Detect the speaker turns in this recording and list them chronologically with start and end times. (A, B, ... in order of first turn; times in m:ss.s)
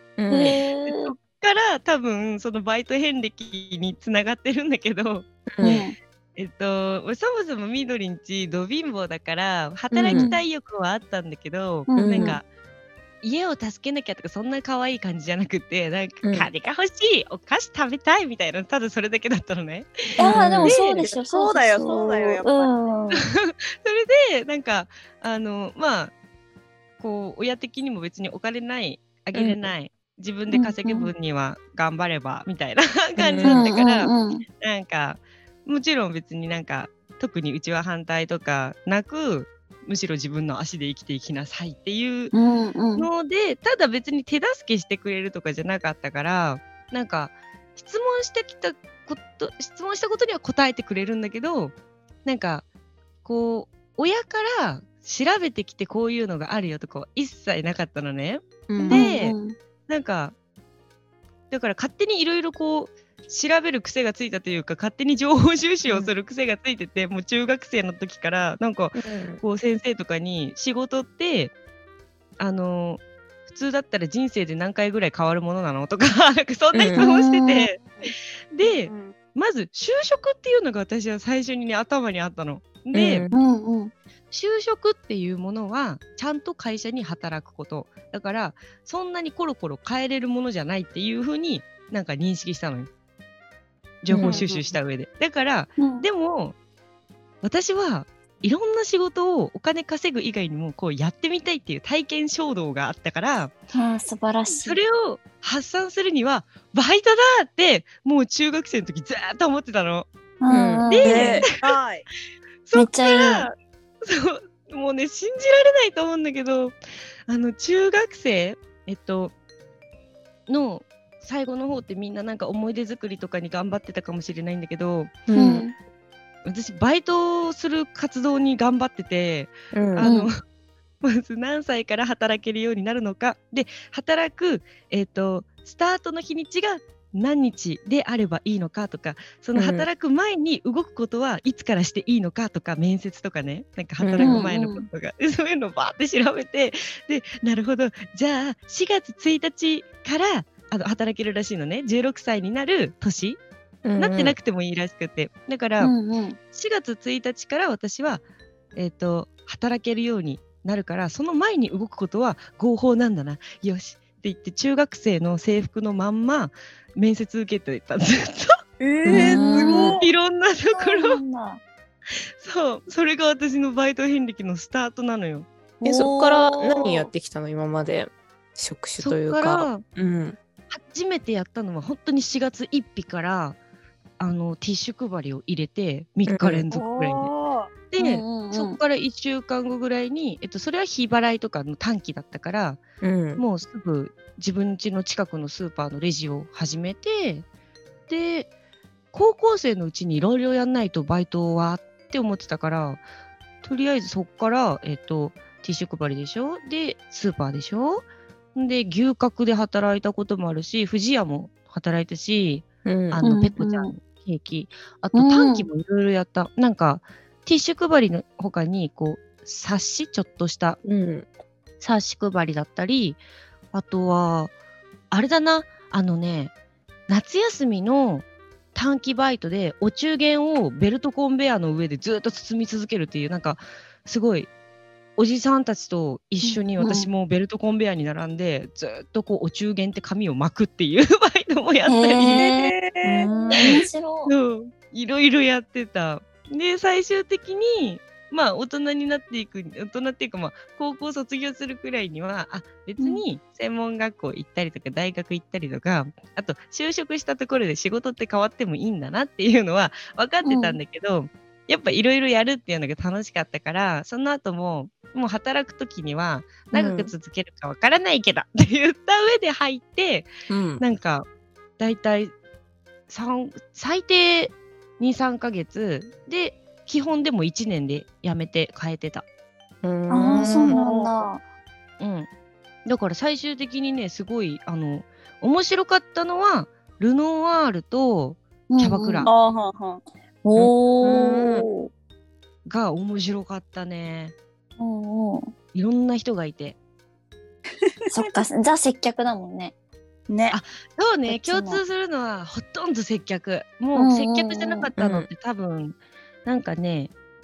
0:00.2-0:00.6 A
0:00.3-0:01.1 B
0:00.8-0:05.8 C
0:05.5-0:05.8 A
0:05.6-0:06.0 B
0:06.4-0:12.4 C
0:09.9-0:10.3 A
0:10.1-0:10.4 B
0:11.9-0:12.4 B
0:11.9-0:12.4 A
0:13.2-0:21.0 C
0:20.2-0:23.2 B
0:20.2-0:20.7 A
0:20.6-0:22.7 D
0:23.2-0:26.1 C
0:27.0-0:42.3 C
0:29.3-0:29.7 A
0:30.5-0:31.1 B
0:33.2-0:33.7 A
0:33.4-0:34.4 B
0:42.3-0:43.1 B
0:43.0-0:52.6 C
0:53.2-0:59.3 C
0:58.7-0:59.0 A
0:58.8-0:59.6 B
0:59.9-1:00.3 C
1:01.5-1:11.5 C
1:09.0-1:09.4 A
1:12.4-1:18.0 C
1:16.7-1:17.0 A
1:17.0-1:17.7 B
1:18.5-1:23.2 C
1:18.6-1:19.1 D
1:22.9-1:23.3 A
1:23.3-1:23.9 B
1:24.3-1:32.9 C
1:34.0-1:36.6 C
1:34.1-1:34.4 A
1:34.2-1:34.7 D
1:35.8-1:36.1 B
1:37.4-1:43.5 C
1:43.7-1:44.8 B
1:44.6-1:50.1 C
1:50.4-1:51.4 B
1:50.5-1:51.0 A
1:50.9-1:51.4 C
1:51.0-1:52.0 D
1:52.6-1:56.7 C
1:52.7-1:53.5 B
1:57.2-1:59.3 C
2:00.5-2:05.2 C
2:05.3-2:05.6 A
2:05.3-2:05.7 B
2:06.4-2:10.3 C
2:09.7-2:10.1 A
2:10.0-2:10.3 B
2:11.0-2:33.4 C
2:19.5-2:19.9 A
2:24.0-2:24.5 A
2:24.2-2:24.9 B
2:33.8-2:34.4 A
2:34.0-2:35.9 C
2:35.8-2:36.4 B
2:36.5-2:38.2 C
2:38.8-2:48.6 C
2:48.8-2:50.1 D
2:49.1-2:49.7 A
2:49.1-2:50.0 B
2:49.3-2:51.2 C
2:50.7-2:51.6 B
2:52.4-2:55.5 C
2:55.8-3:00.4 A
2:55.8-2:56.8 B
2:59.0-2:59.8 C
3:00.7-3:03.6 C
3:04.2-3:07.3 C
3:06.2-3:06.6 A
3:06.7-3:07.7 D
3:07.9-3:12.8 C
3:08.0-3:08.8 B
3:13.0-3:13.4 A
3:13.4-3:17.4 C
3:18.1-3:18.5 C
3:19.1-3:23.0 C
3:23.6-3:40.8 C
3:32.8-3:33.2 A
3:33.2-3:33.9 B
3:35.1-3:35.7 B
3:40.8-3:41.3 A
3:41.8-3:43.2 C
3:43.7-3:44.5 C
3:45.1-3:46.5 C
3:47.1-3:54.5 C
3:55.2-4:02.5 C
3:56.4-3:57.1 B
4:01.8-4:02.7 B
4:02.3-4:03.3 D
4:03.0-4:03.8 A
4:03.3-4:04.3 B
4:03.6-4:31.2 C
4:20.4-4:20.8 B
4:26.7-4:27.1 A
4:30.5-4:30.8 A
4:31.8-4:32.3 C
4:33.1-4:39.2 C
4:39.8-4:40.8 A
4:40.1-4:41.4 B
4:40.3-4:41.3 D
4:42.0-4:42.3 C
4:42.8-4:49.3 C
4:48.7-4:49.3 B
4:49.2-4:50.0 D
4:50.4-4:51.9 B
4:50.6-4:51.6 A
4:52.6-4:54.3 C
4:54.8-4:55.5 B
4:55.7-4:56.8 C
4:58.1-4:59.7 B
4:58.2-4:58.4 D
5:00.3-5:00.6 D
5:00.5-5:07.1 C
5:01.3-5:01.8 B
5:03.9-5:04.9 B
5:05.0-5:05.3 A